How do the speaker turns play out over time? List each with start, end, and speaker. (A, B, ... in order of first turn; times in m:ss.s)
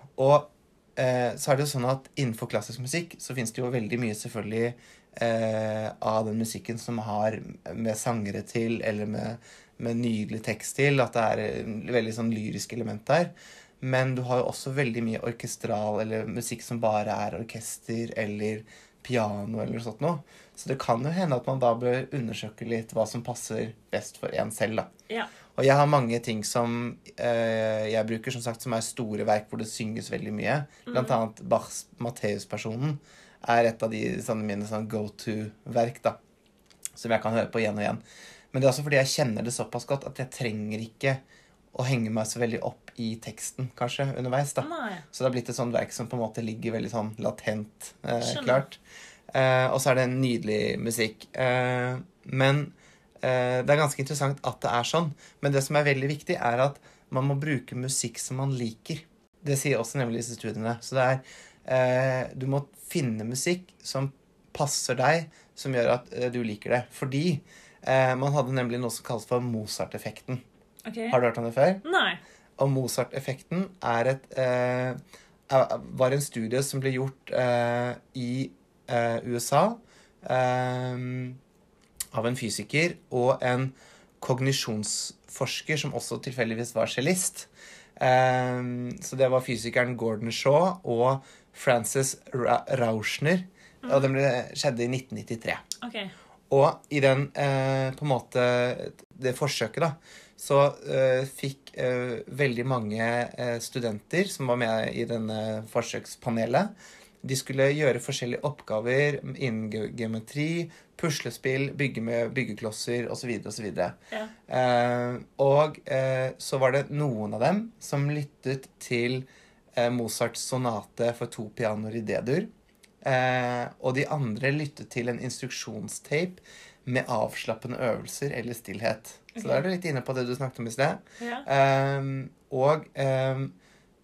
0:00.2-0:24.9 A
0:25.5-0:36.2 A
0:30.9-0:31.2 B
0:37.0-0:38.0 A
0:38.5-0:41.2 A
0:41.7-1:10.4 A
0:44.6-0:45.0 B
0:48.2-0:48.6 B
1:10.9-1:11.2 B
1:11.1-1:11.8 A
1:11.8-1:12.2 B
1:12.6-1:15.0 A
1:15.5-1:21.4 A
1:22.1-1:35.6 A
1:33.8-1:34.1 B
1:35.8-1:36.1 B
1:36.5-1:46.7 A
1:47.2-1:54.0 A
1:54.5-2:02.5 A
2:03.0-2:13.5 A
2:09.4-2:09.6 B
2:11.2-2:11.5 B